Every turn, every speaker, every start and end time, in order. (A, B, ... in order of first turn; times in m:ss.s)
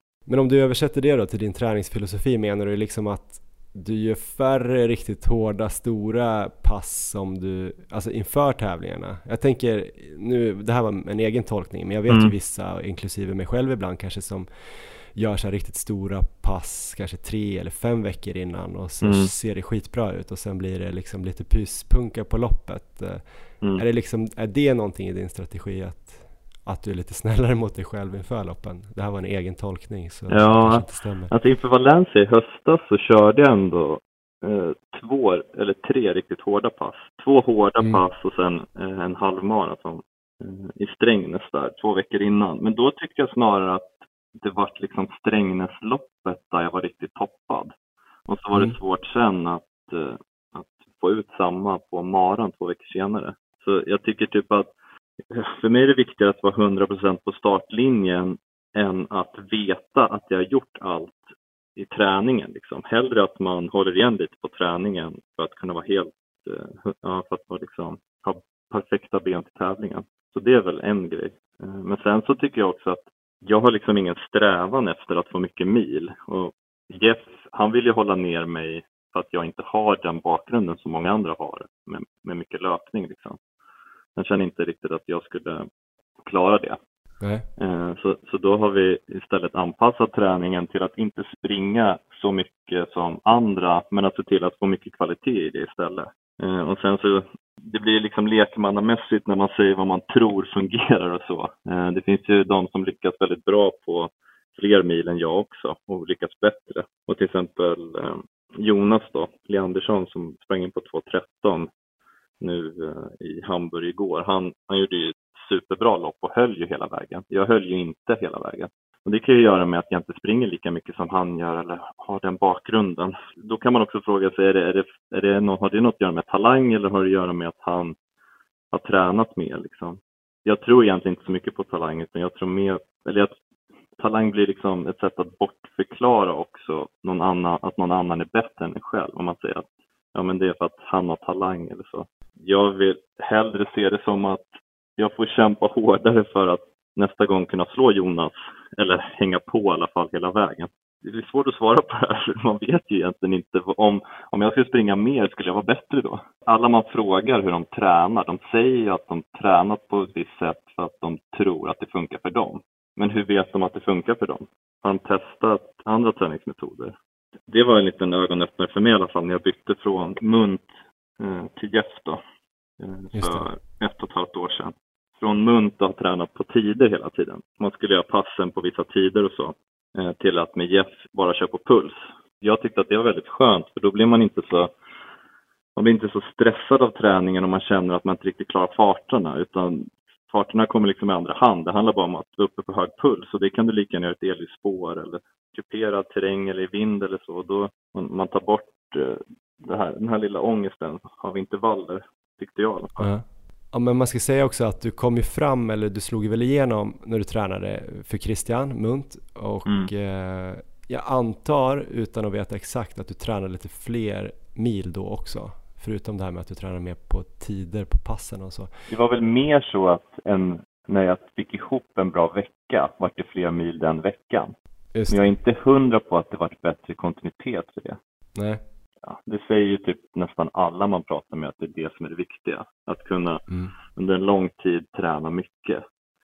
0:00.3-0:31.3 A
0:19.0-0:19.3 B
0:30.3-0:47.7 B
0:48.3-0:54.7 B
0:55.3-1:01.2 B
1:01.8-1:23.4 B
1:24.2-1:25.6 B
1:26.2-1:26.8 B
1:27.2-1:27.4 A
1:27.6-1:51.7 B
1:52.4-2:07.9 B
2:08.7-2:13.3 B
2:14.0-2:46.9 B
2:47.5-2:50.7 B
2:51.2-2:52.2 B
2:52.8-3:04.7 B
2:53.1-2:53.4 A
3:05.8-3:23.0 B
3:23.0-3:38.7 A
3:38.9-3:44.5 B
3:44.9-3:45.3 A
3:45.1-3:48.0 B
3:48.3-3:48.6 A
3:49.0-3:55.8 B